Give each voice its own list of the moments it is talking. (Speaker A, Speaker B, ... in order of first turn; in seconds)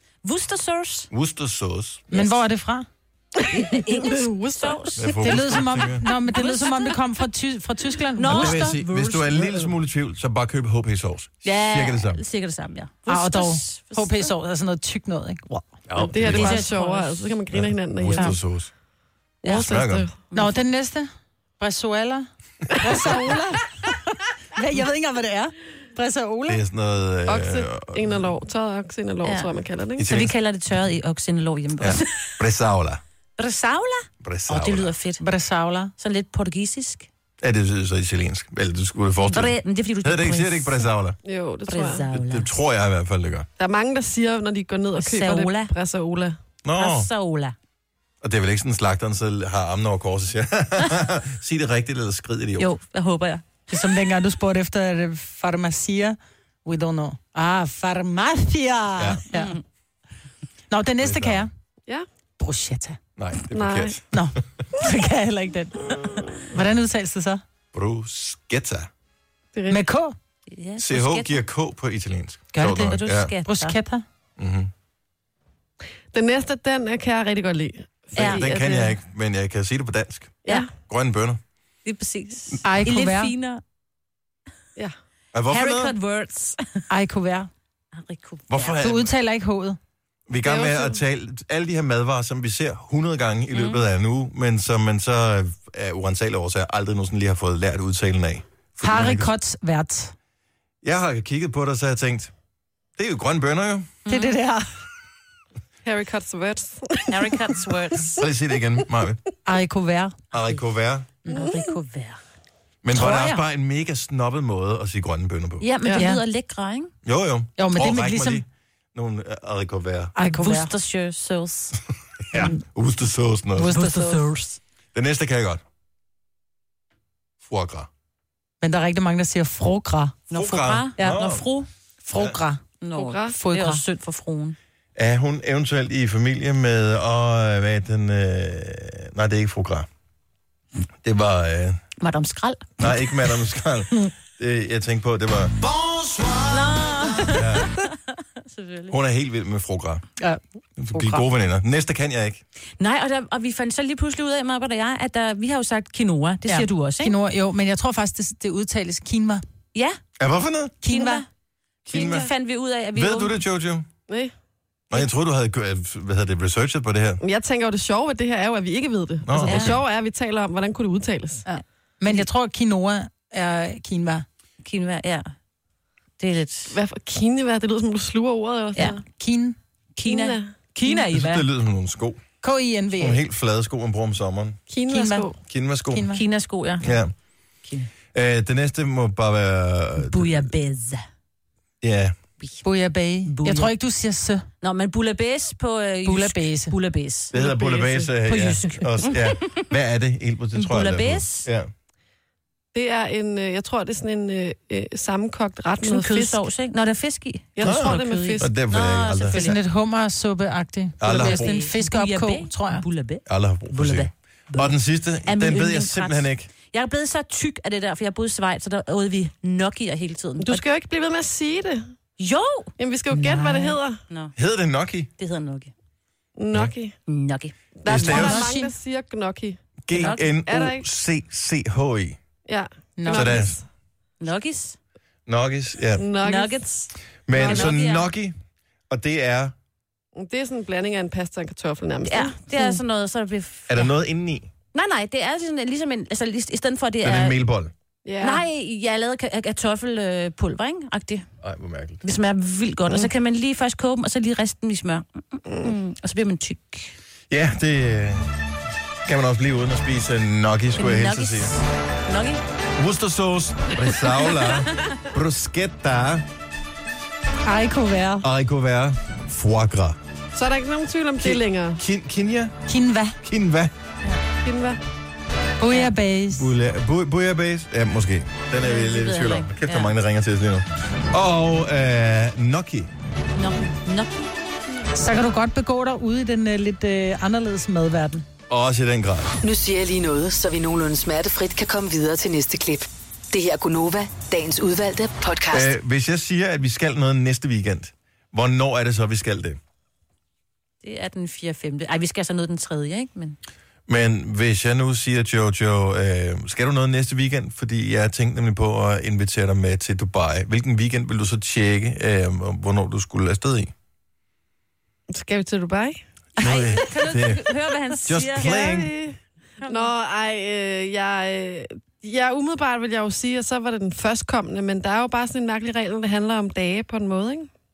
Speaker A: 0.2-1.1, 3.5-5.6, 6.2-7.0, 8.2-9.5, 11.4-14.3, 16.2-17.4, 19.4-19.7, 20.3-20.6, 29.2-32.3, 33.4-35.2, 36.0-37.1, 39.2-40.9, 41.7-42.5, 45.0-45.7, 46.7-47.5, 52.6-53.6, 59.3-59.6, 70.5-71.4, 72.6-73.8, 78.2-78.5, 81.8-83.6, 85.5-86.8, 87.9-88.8, 93.5-93.8, 104.0-104.4, 107.1-108.2, 111.2-112.2, 112.9-113.4, 115.6-116.9, 120.2-121.8, 123.7-124.4, 130.3-131.7, 132.8-134.6, 142.0-142.9, 146.4-149.0, 152.8-157.1, 160.8-161.3, 161.9-163.4, 169.4-169.8, 174.6-175.3, 176.2-176.8, 179.9-181.5, 186.1-186.9, 190.0-191.0, 193.3-193.7, 194.6-199.7, 200.5-201.5, 205.8-209.6, 211.0-214.7, 215.2-220.6, 222.2-222.7, 225.2-225.7, 227.1-227.5, 228.0-228.4, 229.9-230.3, 234.2-234.8, 236.2-238.1, 242.0-243.9, 244.7-247.4, 248.2-251.2, 252.0-256.9, 260.8-262.4, 278.6-279.9, 283.4-284.3, 300.8-303.4, 316.4-318.8, 319.6-319.9
Speaker B: 1.1-2.1, 5.0-6.0, 8.2-12.2, 15.9-16.6, 17.5-18.7, 19.4-20.1, 26.5-28.2, 30.0-30.3, 31.8-33.0, 34.2-34.9, 37.4-41.2, 42.1-43.5, 46.6-47.1, 48.2-52.7, 59.0-59.2, 61.0-61.5, 63.1-64.0, 67.7-68.9, 70.8-73.3, 74.4-74.7, 78.1-81.4, 85.3-85.9, 88.5-89.1, 90.3-99.3, 100.8-102.3, 103.0-103.9, 108.2-109.2, 110.3-111.1, 112.8-115.7, 117.0-120.1, 122.3-123.9, 124.9-125.6, 127.4-127.9, 130.3-131.4, 132.1-132.4, 134.9-139.9, 141.0-141.8, 142.8-145.6, 147.3-147.8, 148.9-150.0, 150.8-152.4, 160.2-160.8, 161.9-162.3, 162.9-163.9, 164.9-167.2, 169.2-169.8, 181.1-182.2, 183.0-184.6, 185.5-186.1, 186.8-187.1, 188.1-190.5, 191.8-192.2, 197.3-201.7, 207.6-209.5, 211.0-211.6, 213.3-216.5, 224.3-225.1, 227.8-228.5, 229.8-232.2, 233.1-233.6, 235.3-236.1, 237.2-238.3, 238.9-239.5, 243.7-244.5, 247.0-247.7, 251.4-252.0, 257.3-258.2, 259.0-261.5, 262.8-266.2, 268.2-270.0, 271.2-272.6, 273.2-273.7, 276.3-282.9, 288.5-289.3, 295.5-299.6, 303.9-313.7, 316.4-318.9
Speaker C: 2.1-2.9, 5.2-8.7, 13.1-15.6, 20.3-21.1, 21.6-23.9, 24.5-26.6, 35.2-35.9, 53.7-59.5, 60.7-61.5, 62.4-63.0, 64.1-67.4, 69.7-70.1, 72.5-74.0, 82.6-83.3, 86.9-87.5, 88.8-89.8, 98.8-100.1, 104.1-104.6, 109.5-110.2, 113.0-113.3, 115.9-116.2, 117.6-118.4, 120.2-120.7, 123.6-124.6, 128.6-130.2, 131.0-131.2, 132.0-132.6, 133.3-133.8, 150.9-151.2, 156.5-159.4, 160.8-161.2, 171.5-174.2, 179.1-179.6, 182.4-183.2, 184.9-185.3, 185.9-186.2, 192.6-194.4, 196.0-196.7, 209.3-212.8, 223.1-223.7, 228.0-228.7, 233.0-233.4, 267.4-268.3, 272.7-273.2, 275.6-276.5, 284.9-288.2
Speaker D: 3.4-5.1, 16.0-18.4, 19.4-20.1, 22.8-23.4, 27.3-30.1, 41.2-42.0, 43.6-46.4, 63.5-64.0, 69.5-69.8, 76.1-78.9, 90.4-91.0, 105.8-107.7, 132.9-133.3, 167.2-171.4, 176.7-179.0, 180.1-180.5, 184.7-185.3, 197.3-198.0, 202.7-206.4, 207.6-208.5, 220.4-221.9, 222.8-224.0, 226.4-226.9, 227.8-229.6, 230.4-230.8, 232.5-233.6, 236.0-236.6, 237.3-237.7, 240.2-242.8, 248.0-248.4, 270.3-271.8, 274.4-274.8, 315.1-316.0, 318.4-327.5
Speaker E: 289.4-295.7